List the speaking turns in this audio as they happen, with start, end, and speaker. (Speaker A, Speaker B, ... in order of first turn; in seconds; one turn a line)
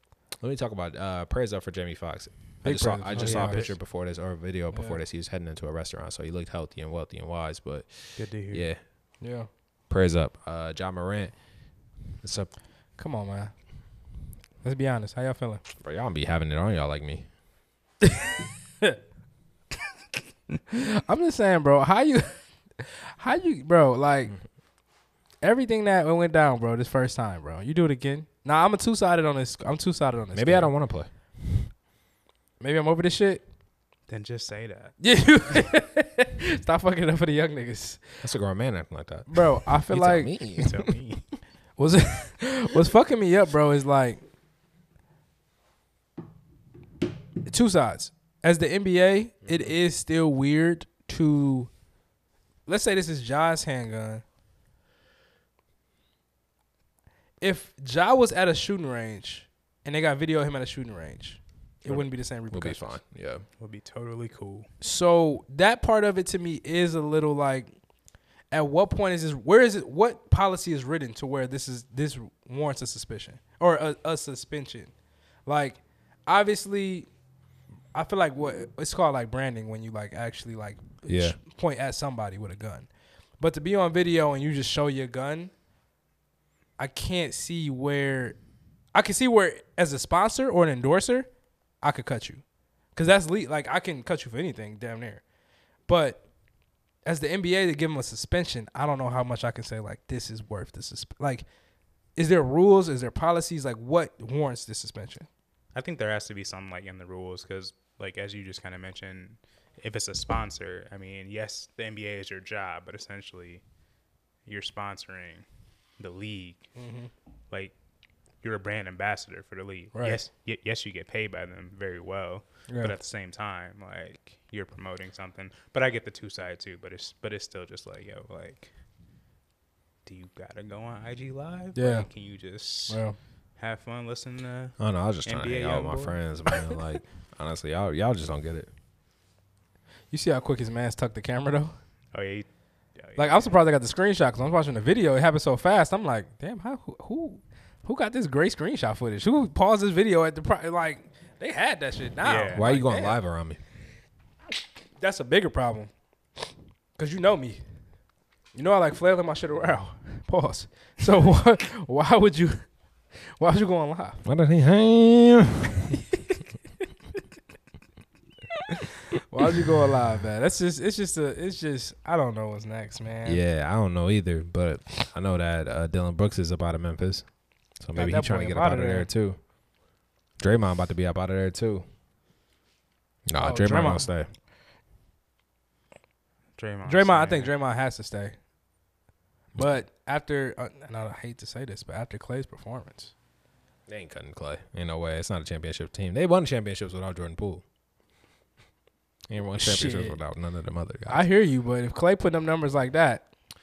Speaker A: 0.4-8.8
Speaker B: 2.6-3.7
Speaker C: 3.2-3.7
Speaker B: 4.7-5.0
Speaker C: 8.2-8.7
Speaker B: 9.2-9.5
Speaker A: 9.9-11.3
Speaker A: 12.2-12.5
Speaker B: 13.0-13.5
Speaker B: 14.6-15.6
Speaker A: 15.8-17.3
Speaker B: 20.7-24.4
Speaker B: 25.4-30.7
Speaker A: 30.3-31.1
Speaker B: 32.6-33.4
Speaker C: 34.1-35.0
Speaker B: 35.0-38.2
Speaker A: 38.2-40.9
Speaker B: 39.3-40.3
Speaker C: 40.6-41.2
Speaker B: 41.8-44.2
Speaker B: 47.5-51.7
Speaker A: 49.5-49.7
Speaker B: 52.7-54.2
Speaker B: 57.4-62.9
Speaker A: 61.9-63.5
Speaker C: 63.6-64.7
Speaker B: 64.8-67.7
Speaker B: 68.5-74.9
Speaker B: 75.5-77.1
Speaker B: 77.9-82.9
Speaker A: 81.1-81.4
Speaker B: 83.4-85.5
Speaker B: 86.8-88.4
Speaker B: 88.9-91.3
Speaker B: 91.8-92.4
Speaker B: 93.0-95.2
Speaker B: 95.9-96.2
Speaker B: 97.0-101.5
Speaker B: 102.2-105.3
Speaker C: 105.8-113.6
Speaker C: 114.5-115.5
Speaker C: 116.0-116.7
Speaker B: 116.8-117.1
Speaker C: 118.4-128.7
Speaker B: 119.9-120.2
Speaker B: 122.7-122.9
Speaker C: 130.1-133.0
Speaker B: 131.8-132.1
Speaker B: 132.9-133.2
Speaker C: 133.6-136.2
Speaker A: 134.8-138.7
Speaker B: 140.1-141.8
Speaker C: 142.1-143.6
Speaker B: 143.2-153.2
Speaker C: 152.2-152.7
Speaker A: 152.5-153.6
Speaker B: 155.0-155.9
Speaker B: 157.0-157.6
Speaker B: 158.6-162.6
Speaker B: 163.4-164.2
Speaker A: 164.2-165.9
Speaker B: 169.3-173.4
Speaker A: 173.3-177.3
Speaker A: 177.8-179.4
Speaker B: 177.9-179.1
Speaker A: 180.4-181.8
Speaker A: 183.3-184.3
Speaker B: 183.4-184.1
Speaker C: 186.6-187.5
Speaker B: 186.9-188.4
Speaker B: 189.6-193.1
Speaker A: 193.9-197.6
Speaker A: 199.3-201.2
Speaker B: 199.6-200.2
Speaker B: 201.1-203.2